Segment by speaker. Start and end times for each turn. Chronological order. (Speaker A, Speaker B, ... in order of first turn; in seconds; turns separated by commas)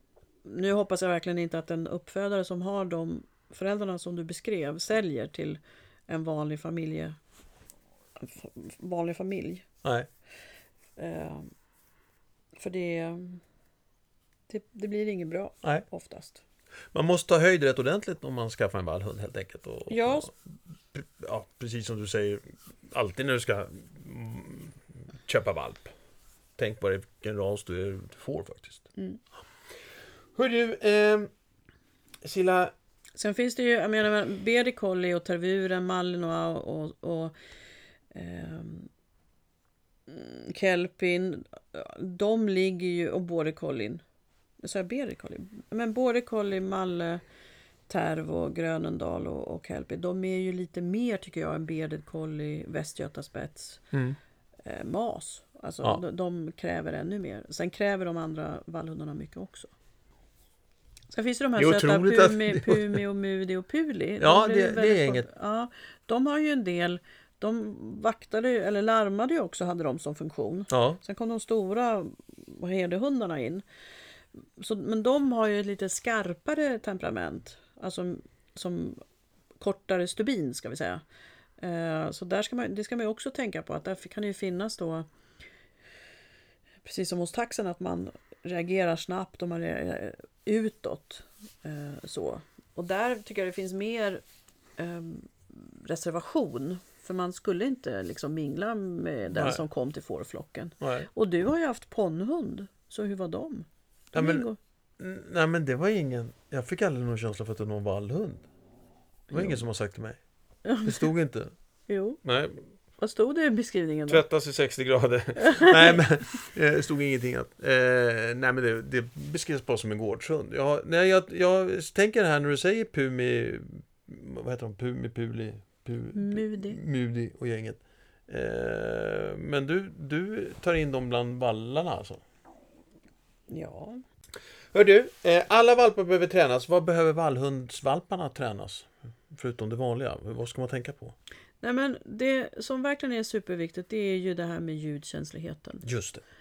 Speaker A: 0.4-7.2, Speaker A: 8.2-9.7, Speaker A: 11.0-11.5, Speaker A: 12.6-13.4, Speaker A: 14.5-16.4, Speaker B: 16.9-20.3, Speaker A: 19.9-20.3, Speaker B: 20.9-25.9, Speaker B: 26.6-28.9, Speaker B: 30.3-31.3, Speaker B: 32.2-32.7, Speaker A: 33.2-37.3, Speaker A: 38.1-38.9, Speaker A: 40.1-44.0, Speaker A: 44.6-47.2, Speaker A: 47.9-53.9, Speaker B: 53.9-54.2, Speaker A: 54.6-59.7, Speaker A: 61.1-73.6, Speaker B: 61.6-63.0, Speaker B: 64.2-65.2, Speaker B: 70.7-71.0, Speaker A: 74.6-79.0, Speaker A: 79.6-81.0, Speaker A: 81.6-85.1, Speaker A: 86.8-94.2, Speaker A: 94.8-104.6, Speaker B: 99.3-99.6, Speaker B: 100.8-101.1, Speaker B: 104.1-104.5, Speaker B: 105.0-108.4, Speaker A: 109.3-109.6, Speaker B: 109.3-110.2, Speaker A: 110.6-111.1, Speaker B: 110.8-111.5, Speaker A: 111.9-112.2, Speaker B: 112.2-112.6, Speaker A: 113.0-114.2, Speaker B: 114.1-132.2, Speaker A: 115.4-116.0, Speaker A: 126.1-126.8, Speaker A: 133.5-134.0, Speaker B: 134.7-141.1, Speaker A: 141.6-145.8, Speaker B: 145.8-146.2